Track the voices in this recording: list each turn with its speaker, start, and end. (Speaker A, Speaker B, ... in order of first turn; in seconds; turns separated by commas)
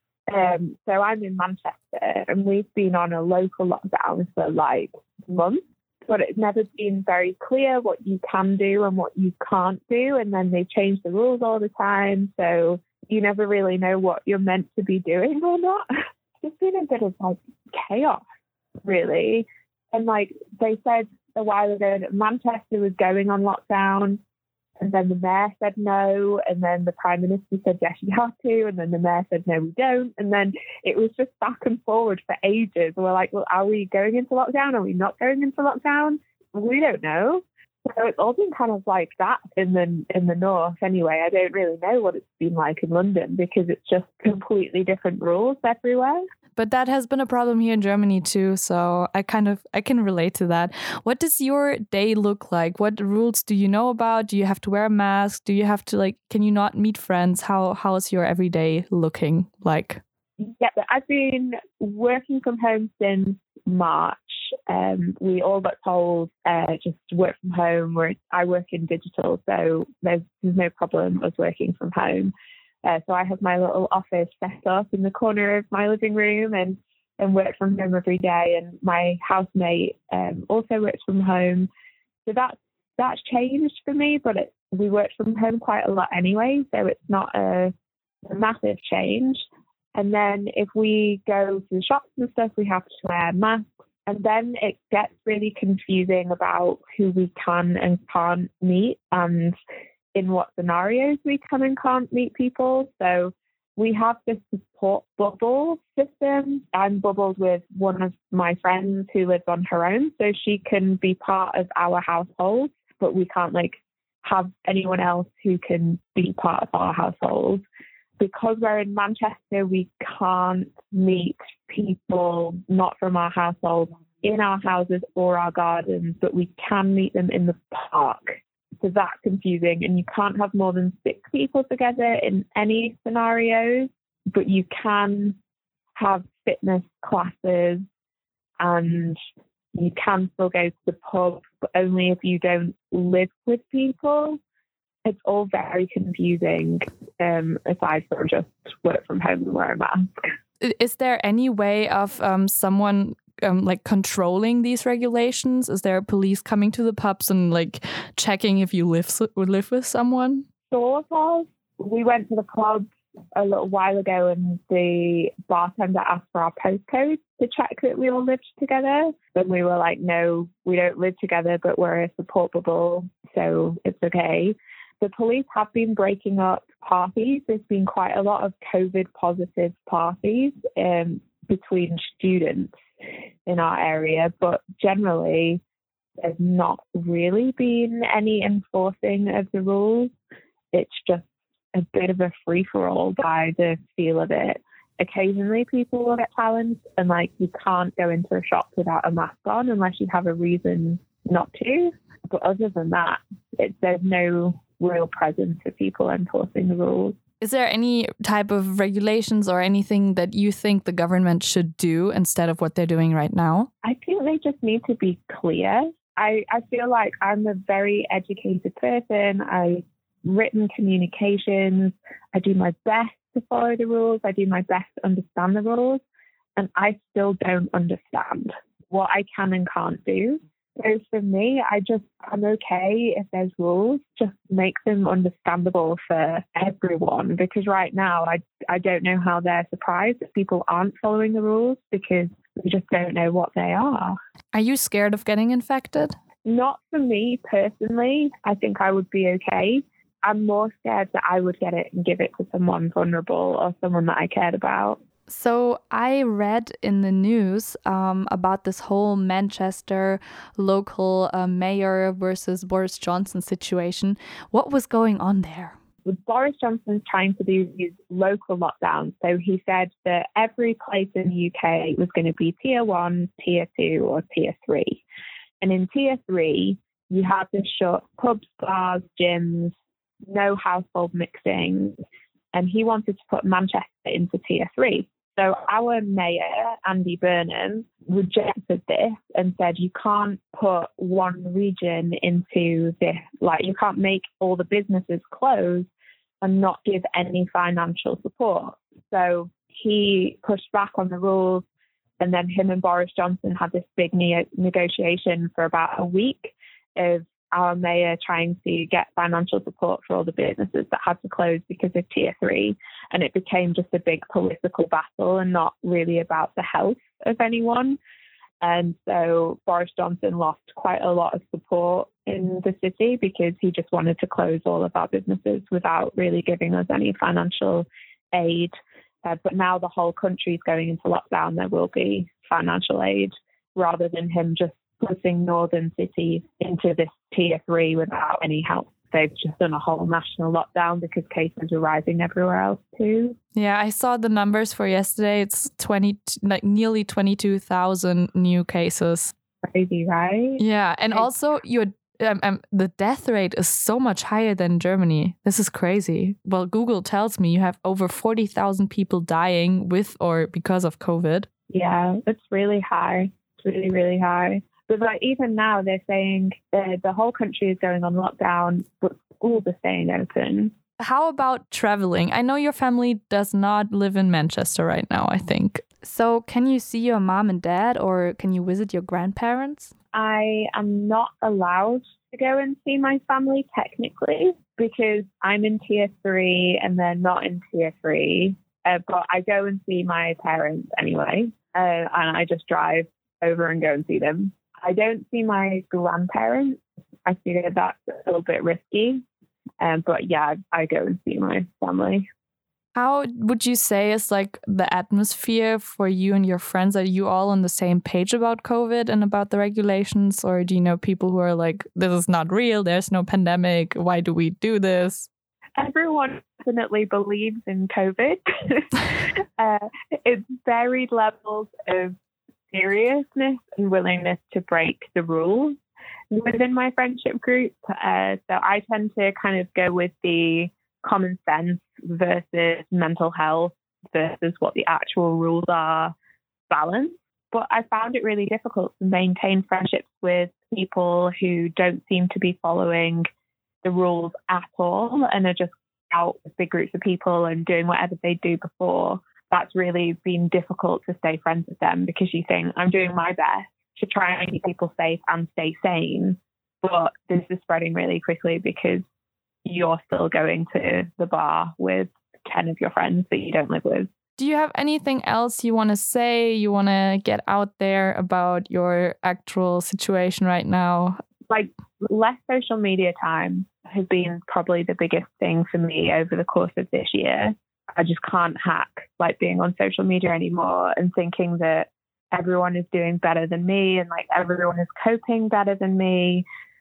Speaker A: 0.3-15.9, Speaker A: 16.4-18.2, Speaker A: 18.8-24.2, Speaker A: 24.8-46.2, Speaker B: 46.6-60.0, Speaker A: 60.4-72.3, Speaker A: 72.8-81.7, Speaker A: 82.2-87.7, Speaker A: 88.3-89.4, Speaker A: 89.9-99.5, Speaker A: 100.1-117.6, Speaker A: 118.2-135.4, Speaker A: 135.9-137.8, Speaker A: 138.6-139.2, Speaker A: 139.7-144.4, Speaker A: 145.0-150.1, Speaker B: 150.6-160.4, Speaker A: 160.7-182.7, Speaker A: 183.4-185.6, Speaker A: 186.2-190.1, Speaker A: 190.7-207.2, Speaker B: 207.4-213.7, Speaker A: 213.8-226.0, Speaker A: 226.6-244.1, Speaker B: 244.5-246.2, Speaker A: 246.4-255.0, Speaker B: 255.3-265.7, Speaker A: 266.1-275.0, Speaker A: 275.6-279.7, Speaker A: 280.3-282.0, Speaker A: 282.5-295.9, Speaker A: 296.4-301.6, Speaker A: 302.2-318.0, Speaker A: 318.6-328.7, Speaker A: 329.2-343.4, Speaker B: 343.5-349.3, Speaker A: 349.6-351.3, Speaker B: 350.6-361.5, Speaker A: 361.7-370.7, Speaker B: 371.0-379.9, Speaker A: 380.1-399.2, Speaker A: 399.8-402.2, Speaker B: 402.9-415.3, Speaker A: 415.8-422.1, Speaker A: 422.7-425.8, Speaker A: 426.3-436.1, Speaker A: 436.7-443.2, Speaker A: 443.8-459.0, Speaker A: 459.6-464.1, Speaker B: 464.4-471.2, Speaker A: 471.5-486.4